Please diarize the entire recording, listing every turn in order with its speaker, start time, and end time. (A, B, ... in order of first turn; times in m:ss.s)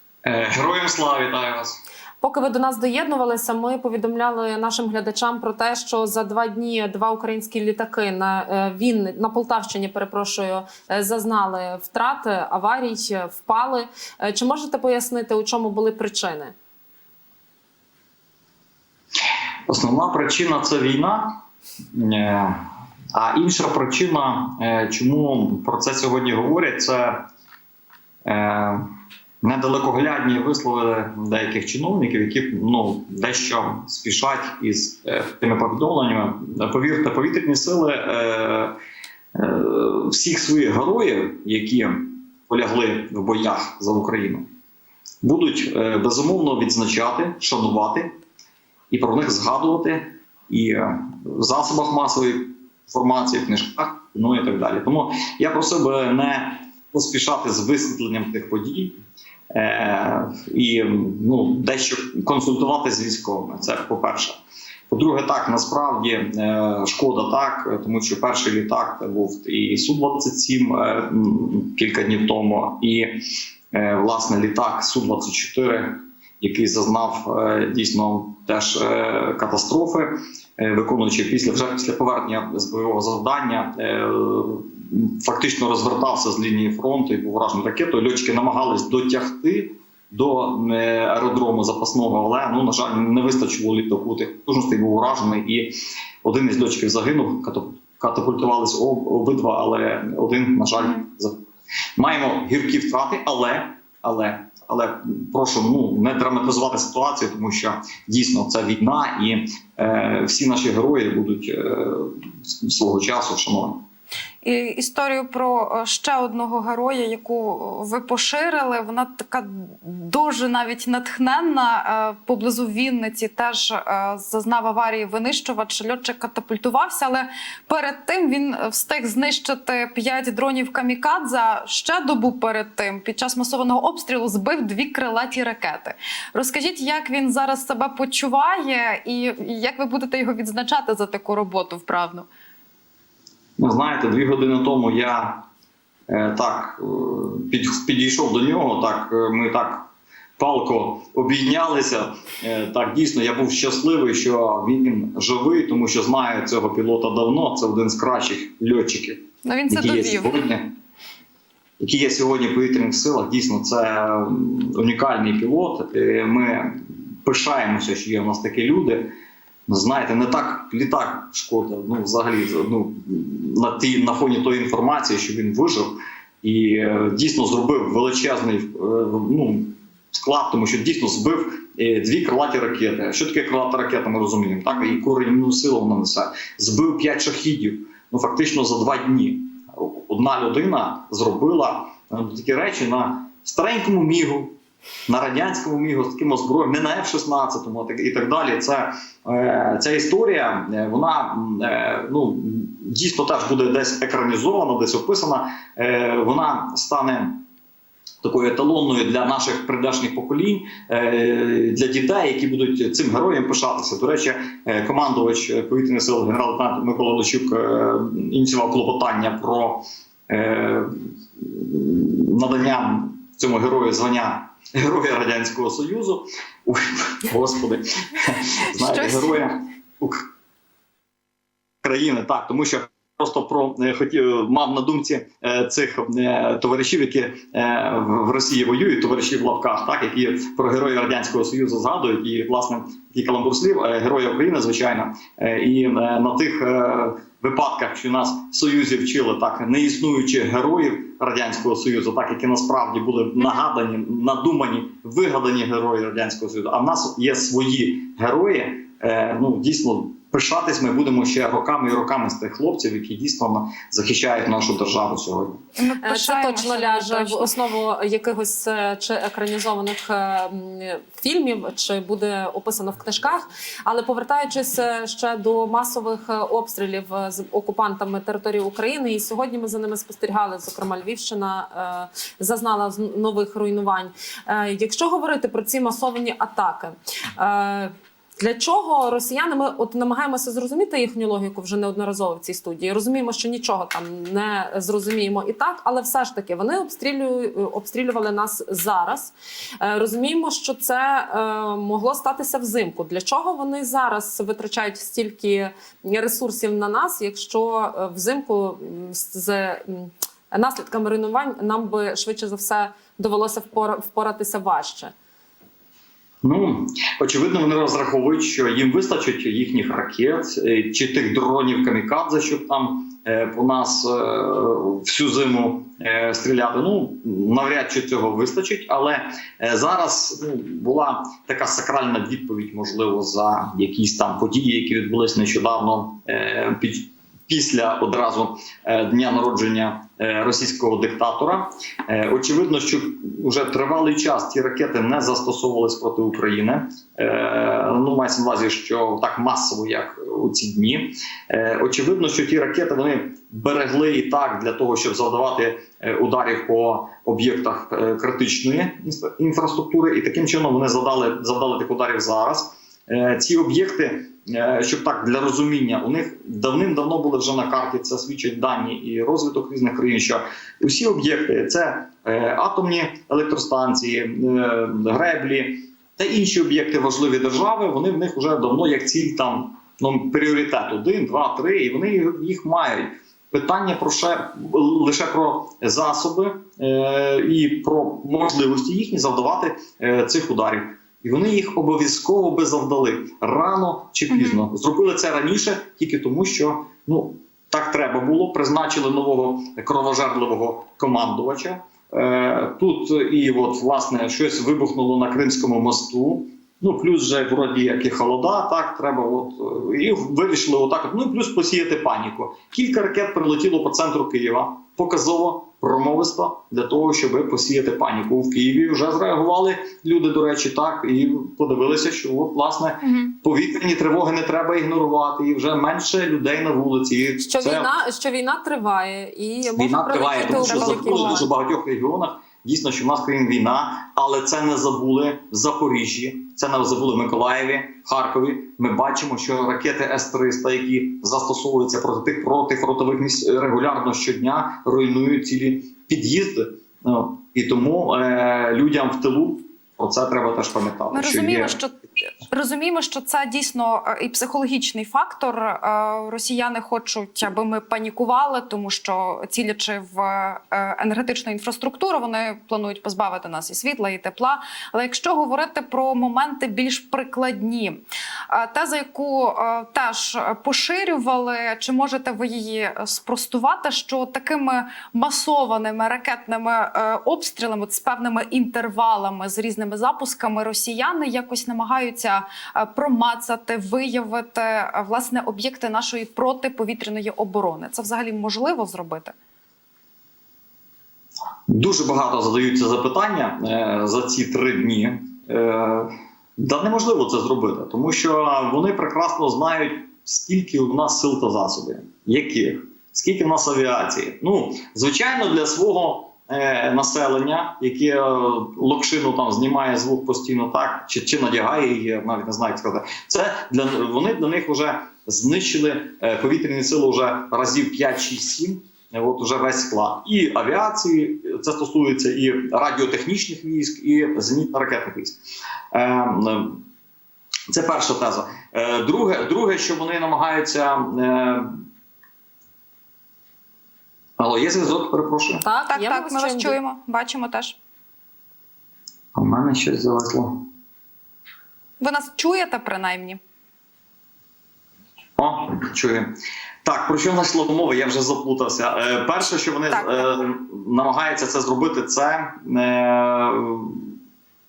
0:00.2-0:01.8 A
0:02.2-0:16.5 B
0:19.7-0:21.4 A
0:21.9-0:27.2 A
0:28.2-0:28.8 A
0:29.4-0:38.7 A
0:39.3-0:44.5 A
0:45.2-0:48.1 A
0:48.9-0:59.0 A
0:59.5-1:04.4 A
1:04.9-1:13.2 A
1:13.7-1:41.4 A
1:42.0-1:53.8 A
1:54.4-2:22.3 C
2:23.6-2:25.4 A
2:26.1-2:40.7 A
2:39.4-2:40.3 C
2:41.8-2:49.1 A
2:49.7-3:14.5 A
3:15.1-3:27.4 A
3:28.2-3:50.3 A
3:48.8-3:49.4 C
3:51.8-4:25.6 A
4:25.8-4:27.5 C
4:26.0-5:15.1 B
5:16.4-7:07.9 A
6:34.3-6:34.6 C
7:03.0-7:03.3 C
7:07.4-7:11.5 B
7:09.8-7:31.8 A
7:10.4-7:11.4 C
7:31.1-8:09.3 C
8:11.7-8:45.4 A
8:45.9-8:46.8 A
8:47.7-8:51.8 A
8:54.4-8:55.6 A
8:55.6-8:56.8 B
8:55.9-8:57.8 C
8:59.3-9:00.6 A
9:02.0-9:03.4 C
9:05.4-9:06.3 A
9:06.8-9:14.1 A
9:09.9-9:10.3 C